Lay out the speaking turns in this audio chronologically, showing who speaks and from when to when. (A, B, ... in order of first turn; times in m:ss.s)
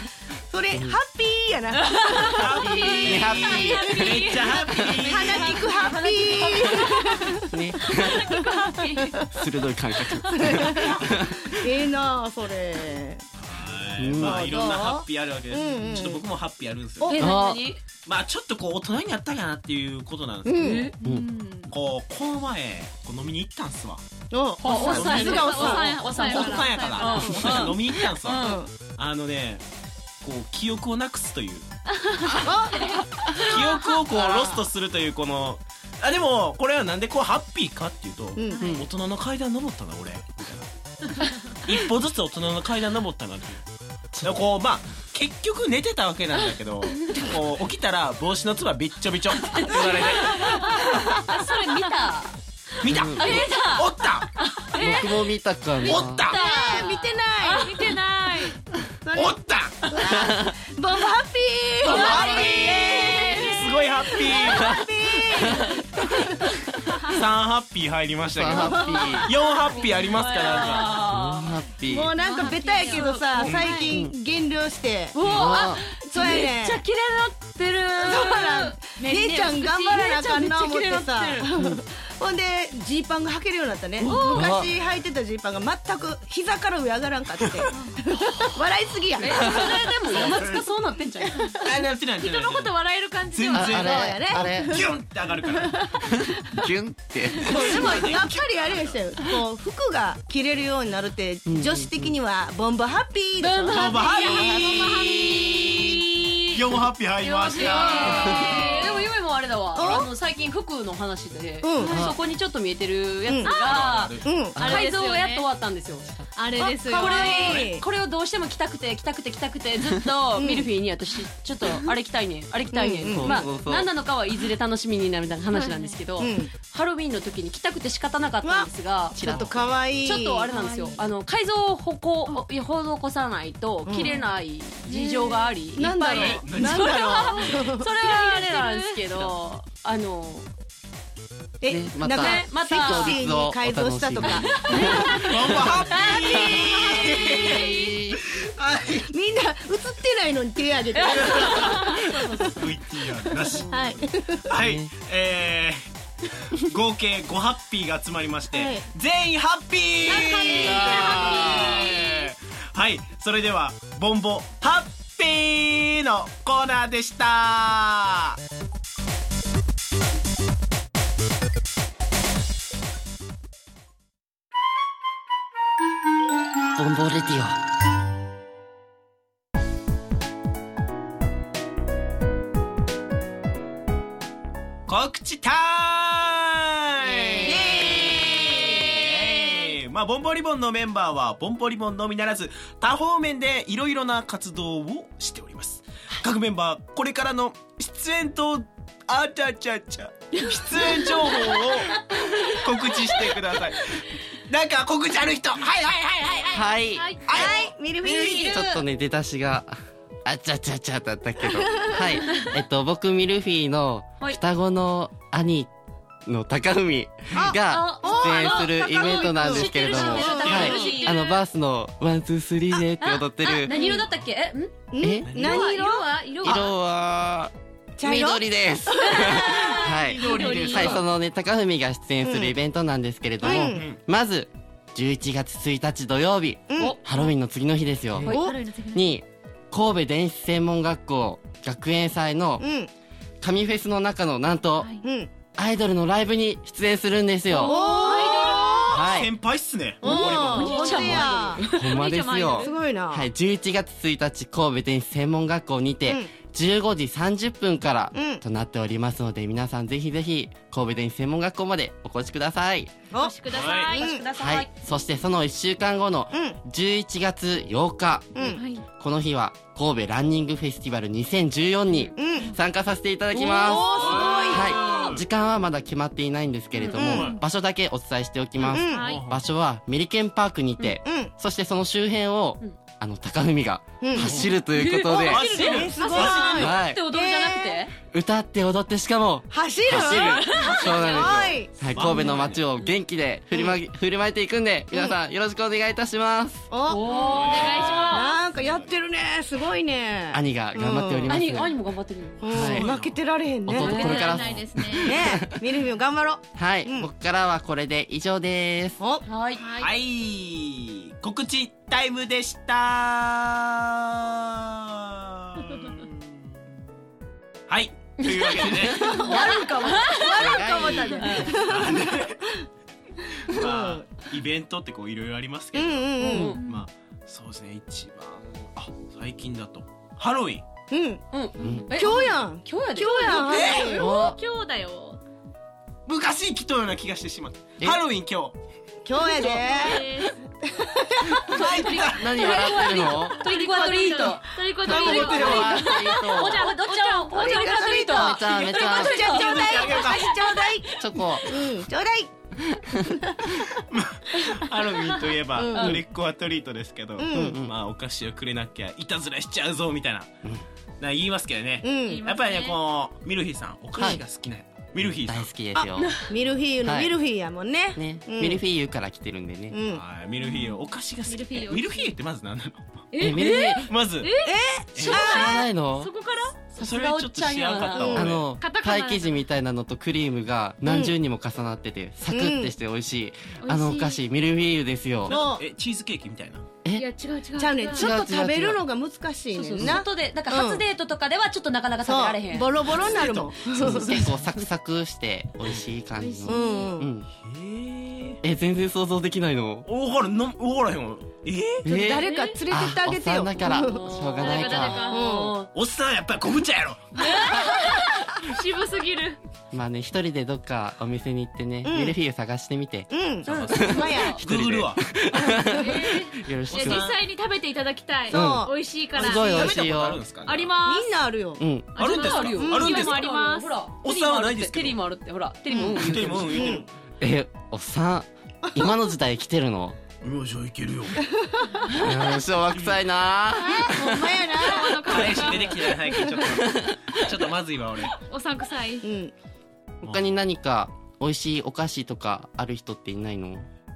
0:00.5-0:03.3 A
0:01.8-0:07.1 B
0:02.4-0:05.7 C
0:02.4-0:04.6 D
0:03.0-0:04.2 E
0:05.0-0:07.5 A
0:05.7-0:07.2 D
0:07.5-0:08.3 E
0:07.8-0:09.2 D
0:08.1-0:09.2 A
0:09.3-0:11.5 E
0:10.3-0:13.2 A
0:10.8-0:11.1 C
0:13.4-0:17.1 C
0:14.0-0:14.5 E
0:14.2-0:16.3 A
0:17.1-0:17.8 B
0:17.2-0:17.6 E
0:18.1-0:20.6 C
0:20.4-0:20.9 A
0:20.6-0:21.0 B
0:20.9-0:21.7 D
0:21.7-0:24.0 C
0:24.3-0:26.7 A
0:24.6-0:28.7 B
0:24.7-0:28.0 D
0:24.8-0:29.6 C
0:28.4-0:28.7 A
0:30.2-0:31.7 C
0:32.0-0:33.9 D
0:32.4-0:32.8 A
0:32.7-0:33.0 B
0:33.4-0:40.7 C
0:34.1-0:34.6 A
0:38.4-0:38.8 A
0:38.6-0:38.9 E
0:41.6-0:43.6 C
0:44.2-0:50.4 C
0:49.4-0:52.4 B
0:49.9-0:52.1 D
0:52.8-0:54.3 C
0:52.8-0:53.5 E
0:52.9-0:55.2 B
0:54.8-0:56.3 E
0:55.8-0:57.2 B
0:55.9-0:56.4 C
0:56.3-0:57.8 A
0:57.4-0:58.6 D
0:59.0-1:06.4 A
0:59.1-0:59.8 C
1:00.1-1:00.5 E
1:01.8-1:04.6 C
1:01.9-1:04.7 D
1:02.2-1:03.4 B
1:06.8-1:07.2 D
1:07.1-1:11.0 C
1:08.3-1:09.3 E
1:08.5-1:09.2 A
1:08.9-1:11.6 B
1:10.9-1:12.1 E
1:11.9-1:15.2 A
1:12.2-1:14.0 D
1:12.7-1:13.5 B
1:13.4-1:14.1 E
1:15.1-1:18.8 B
1:15.2-1:15.8 E
1:16.0-1:16.8 A
1:18.0-1:29.9 A
1:19.0-1:20.1 D
1:19.9-1:21.5 B
1:24.0-1:24.5 D
1:24.3-1:24.7 E
1:27.7-1:28.0 D
1:29.2-1:31.5 B
1:29.3-1:29.7 E
1:30.1-1:30.6 C
1:31.2-1:31.6 A
1:31.6-1:35.8 C
1:31.7-1:33.7 D
1:33.5-1:34.8 E
1:33.6-1:36.6 A
1:36.4-1:38.0 E
1:37.4-1:44.7 A
1:37.7-1:39.2 C
1:37.7-1:38.0 B
1:41.5-1:42.2 E
1:43.4-1:46.6 B
1:43.7-1:45.8 C
1:43.8-1:46.0 D
1:46.5-1:48.9 C
1:47.2-1:49.1 D
1:47.2-1:56.1 B
1:48.0-1:48.6 E
1:49.7-1:50.1 A
1:51.6-1:52.0 A
1:51.8-1:52.2 E
1:53.3-1:53.5 A
1:53.5-1:54.3 C
1:54.2-1:54.6 A
1:54.6-1:54.8 E
1:54.6-1:55.5 D
1:56.4-1:57.6 D
1:56.6-1:57.8 A
1:56.9-2:09.4 B
2:00.4-2:00.7 A
2:02.7-2:03.4 A
2:03.1-2:03.9 E
2:05.5-2:06.0 D
2:06.2-2:06.5 A
2:08.4-2:10.5 A
2:09.2-2:09.6 E
2:10.0-2:20.5 B
2:10.5-2:11.0 D
2:13.8-2:14.2 A
2:13.9-2:14.3 D
2:14.9-2:15.6 D
2:15.7-2:17.9 A
2:16.1-2:17.0 C
2:16.8-2:19.3 D
2:21.6-2:27.5 A
2:21.7-2:23.3 B
2:21.7-2:25.8 E
2:24.2-2:27.6 B
2:25.3-2:29.1 C
2:27.1-2:28.2 D
2:29.1-2:32.5 A
2:31.0-2:32.7 B
2:31.1-2:31.9 C
2:32.5-2:35.8 C
2:33.5-2:34.0 B
2:33.6-2:34.5 A
2:34.6-2:34.9 E
2:36.5-2:48.4 C
2:38.5-2:38.9 A
2:40.1-2:42.0 A
2:40.1-2:42.3 D
2:40.6-2:41.7 E
2:56.8-2:57.6 E
3:04.9-3:22.0 C
3:07.0-3:08.0 E
3:07.4-3:09.1 A
3:20.6-3:23.2 B
3:22.6-3:26.7 C
3:26.5-3:27.2 E
3:26.9-3:27.4 D
3:27.3-3:28.6 C
3:27.3-3:28.6 A
3:28.4-3:35.7 E
3:28.4-3:28.8 B
3:31.6-3:32.0 A
3:36.3-3:43.8 E
3:37.3-3:41.0 A
3:37.5-3:41.3 B
3:40.2-3:41.4 D
3:43.0-3:44.7 B
3:43.7-3:44.0 A
3:44.9-3:46.1 A
3:45.0-3:45.4 E
3:45.2-3:45.7 C
3:45.4-3:46.7 B
3:45.4-3:45.7 D
3:46.4-4:02.7 E
3:48.0-3:49.7 A
3:49.1-3:51.0 B
3:49.8-3:51.0 C
3:52.2-3:52.6 A
3:53.4-3:53.9 A
3:53.7-3:54.0 C
3:56.7-3:57.0 A
3:58.2-3:59.2 D
3:58.3-3:58.6 A
4:02.6-4:02.9 A
4:03.4-4:04.9 E
4:04.8-4:05.0 D
4:05.0-4:05.3 A
4:05.6-4:08.2 E
4:07.6-4:09.0 D
4:07.6-4:09.0 A
4:08.3-4:11.1 C
4:08.9-4:09.3 E
4:10.0-4:11.6 A
4:10.0-4:12.0 B
4:10.1-4:10.5 E
4:10.5-4:12.8 D
4:11.1-4:22.9 E
4:12.6-4:13.3 A
4:16.1-4:16.3 A
4:18.1-4:18.4 A
4:23.1-4:23.4 A
4:23.2-4:24.2 D
4:23.5-4:24.0 C
4:23.9-4:24.7 B
4:24.0-4:24.2 A
4:24.4-4:33.8 E
4:26.3-4:26.6 A
4:28.4-4:28.7 A
4:28.5-4:28.8 D
4:32.0-4:32.6 D
4:32.2-4:32.5 A
4:33.3-4:35.0 A
4:33.6-4:35.2 C
4:34.5-4:45.5 E
4:36.8-4:37.4 D
4:36.9-4:37.3 A
4:37.0-4:37.4 C
4:38.6-4:39.1 A
4:38.8-4:39.3 D
4:39.0-4:39.4 C
4:40.8-4:41.3 A
4:44.0-4:44.5 A
4:44.2-4:44.5 C
4:44.7-4:47.9 B
4:45.3-4:46.7 C
4:45.3-4:47.8 A
4:46.1-4:46.4 D
4:46.5-4:47.0 E
4:48.1-4:56.7 E
4:49.5-4:52.2 A
4:49.9-4:51.3 B
4:50.6-4:51.2 C
4:51.9-4:52.6 C
4:53.5-4:53.8 A
4:54.9-4:55.2 A
4:56.7-5:01.4 A
4:56.9-4:58.1 B
4:57.1-4:58.9 C
4:57.3-4:58.3 D
5:00.3-5:01.7 E
5:01.3-5:02.6 B
5:02.4-5:04.2 A
5:02.5-5:02.9 E
5:02.6-5:03.2 C
5:03.7-5:05.6 E
5:03.8-5:05.2 D
5:03.8-5:04.5 B
5:05.0-5:07.1 A
5:06.6-5:09.0 E
5:09.0-5:09.2 A
5:09.2-5:09.7 B
5:09.6-5:09.9 D
5:09.8-5:16.2 C
5:17.7-5:19.1 C
5:18.3-5:20.6 B
5:18.8-5:22.4 A
5:19.2-5:19.6 D
5:20.3-5:21.4 E
5:21.1-5:21.6 B
5:21.5-5:22.5 C
5:23.5-5:30.6 C
5:23.5-5:24.0 A
5:25.7-5:26.5 A
5:26.2-5:26.6 B
5:26.4-5:26.8 D
5:30.9-5:31.2 A
5:31.3-5:33.4 B
5:31.6-5:31.8 D
5:31.9-5:34.1 A
5:33.1-5:35.2 D
5:33.5-5:33.9 C
5:34.0-5:34.4 E
5:36.1-5:38.6 C
5:39.0-5:41.9 A
5:39.2-5:40.4 D
5:41.2-5:48.0 D
5:41.5-5:42.3 C
5:41.5-5:50.8 B
5:42.0-5:43.5 E
5:44.8-5:45.7 C
5:44.9-5:46.7 E
5:45.2-5:45.5 A
5:47.3-5:50.9 A
5:48.1-5:49.3 E
5:49.3-5:50.4 C
5:51.0-5:51.8 E
5:51.5-5:52.3 A
5:52.6-5:53.0 E
5:53.0-5:53.7 A
5:53.9-6:00.3 C
5:55.6-5:56.0 A
5:55.7-5:56.0 B
5:57.2-5:57.6 A
5:57.3-5:57.7 E
6:01.0-6:05.6 C
6:01.8-6:02.2 A
6:02.0-6:02.8 D
6:05.3-6:06.1 E
6:05.8-6:06.2 B
6:06.3-6:08.6 A
6:06.8-6:07.2 E
6:08.0-6:09.8 E
6:09.7-6:10.0 A
6:09.9-6:13.0 C
6:10.4-6:12.2 D
6:13.1-6:16.6 D
6:13.2-6:13.9 E
6:13.4-6:13.8 B
6:13.8-6:14.3 C
6:14.4-6:15.7 A
6:15.0-6:15.4 C
6:15.1-6:16.1 E
6:16.7-6:18.5 C
6:16.8-6:18.0 B
6:17.8-6:19.4 D
6:18.0-6:18.4 A
6:18.1-6:25.4 E
6:20.8-6:21.2 A
6:22.3-6:22.8 A
6:23.6-6:24.2 D
6:25.3-6:26.7 C
6:25.3-6:25.6 A
6:27.0-6:28.1 D
6:27.6-6:30.8 A
6:27.9-6:28.8 E
6:29.5-6:33.1 B
6:32.0-6:34.3 A
6:33.0-6:33.5 C
6:33.6-6:37.3 E
6:33.8-6:34.3 B
6:36.2-6:36.9 D
6:36.5-6:37.1 A
6:37.4-6:38.4 C
6:38.4-6:39.9 E
6:39.9-6:41.9 C
6:41.8-6:45.1 E
6:41.9-6:45.6 A
6:42.1-6:42.6 D
6:43.6-6:45.7 B
6:44.6-6:45.2 D
6:45.7-6:47.5 C
6:47.2-6:49.4 D
6:47.2-6:47.8 B
6:49.7-6:53.1 E
6:51.8-6:52.2 A
6:53.1-6:54.4 A
6:53.4-6:55.1 C
6:53.5-6:54.4 B
6:53.7-6:57.1 E
6:55.3-6:55.8 A
6:55.8-6:59.8 D
6:56.7-6:57.2 C
6:58.3-6:59.4 A
6:58.3-7:00.2 E
6:59.4-7:00.8 C
7:00.4-7:01.1 D
7:00.8-7:01.6 A
7:01.6-7:02.0 E
7:02.0-7:03.9 D
7:02.0-7:03.2 C
7:02.0-7:06.8 B
7:02.5-7:03.0 A
7:04.0-7:05.0 C
7:05.7-7:06.9 A
7:05.9-7:06.9 C
7:07.2-7:10.0 E
7:08.7-7:09.0 A
7:10.2-7:11.2 C
7:11.4-7:11.8 A
7:12.0-7:14.4 E
7:12.7-7:13.0 C
7:13.6-7:15.6 A
7:14.5-7:16.3 D
7:15.0-7:18.2 C
7:16.4-7:17.0 E
7:18.2-7:19.1 D
7:19.0-7:19.3 A
7:20.0-7:23.7 E
7:20.0-7:20.3 C